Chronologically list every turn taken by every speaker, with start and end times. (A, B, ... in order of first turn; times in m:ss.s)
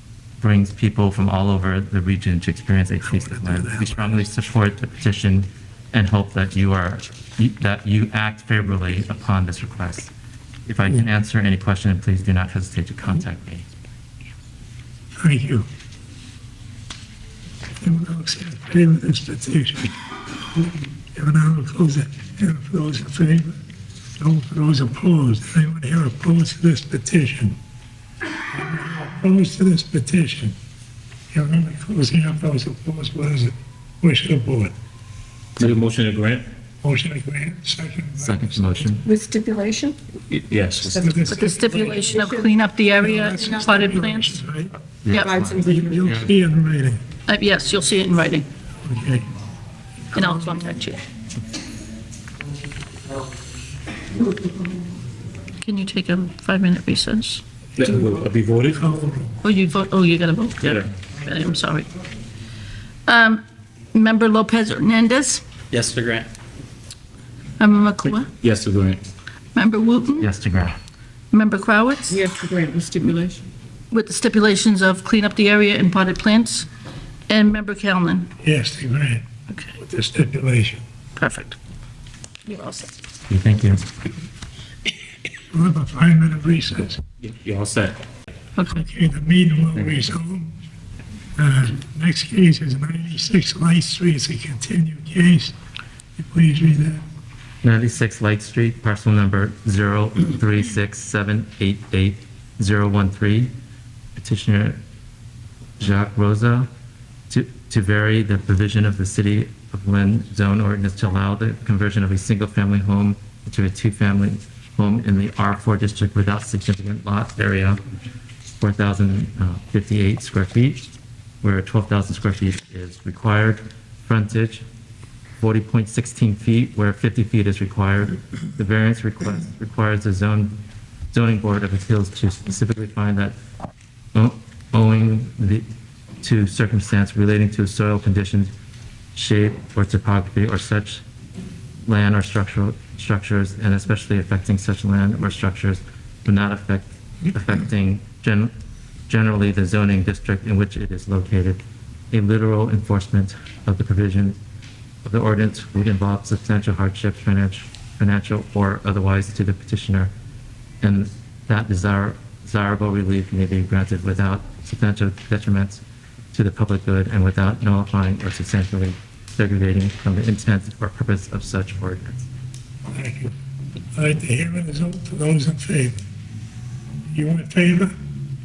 0:00.4-0:10.1 A
0:03.1-0:04.2 B
0:10.7-0:13.7 A
0:15.2-0:15.7 B
0:17.8-0:20.0 B
0:20.5-0:23.6 B
0:24.2-0:27.6 B
0:28.5-0:30.6 B
0:31.3-0:34.7 B
0:35.6-0:36.5 C
0:36.8-0:38.9 B
0:38.2-0:39.0 A
0:39.1-0:39.9 D
0:40.3-0:41.2 C
0:40.9-0:42.2 B
0:41.3-0:44.4 E
0:43.0-0:44.7 B
0:45.0-0:46.3 A
0:45.2-0:46.0 D
0:45.5-0:47.0 B
0:47.3-0:48.5 E
0:48.8-0:49.3 B
0:50.1-0:51.0 E
0:50.2-0:50.7 B
0:55.6-0:57.4 E
0:57.8-0:58.8 C
0:58.8-0:59.4 B
0:59.4-1:01.9 E
1:00.6-1:00.9 C
1:03.1-1:05.4 E
1:07.6-1:08.3 E
1:08.1-1:09.0 C
1:09.6-1:10.3 E
1:10.2-1:10.8 A
1:11.3-1:12.2 E
1:12.1-1:13.4 D
1:13.9-1:16.7 E
1:17.3-1:18.3 E
1:18.4-1:19.3 B
1:19.8-1:20.8 B
1:21.2-1:21.6 E
1:22.5-1:22.9 E
1:23.3-1:23.9 A
1:25.5-1:27.0 B
1:27.2-1:28.0 C
1:28.6-1:28.8 E
1:28.7-1:30.5 B
1:31.4-1:35.5 B
1:36.2-1:37.0 B
1:37.6-1:43.5 A
1:44.2-1:44.8 A
1:45.8-1:46.7 A
1:47.3-1:57.8 A
1:58.6-2:00.9 A
2:01.4-2:04.6 A
2:05.4-2:10.6 A
2:11.1-2:13.4 A
2:14.1-2:15.6 A
2:16.2-2:18.5 A
2:19.2-2:21.0 A
2:21.8-2:28.5 A
2:29.1-2:34.4 A
2:35.0-2:40.1 A
2:40.8-2:52.2 A
2:52.9-2:53.3 B
2:54.0-2:56.0 B
2:57.1-2:57.9 B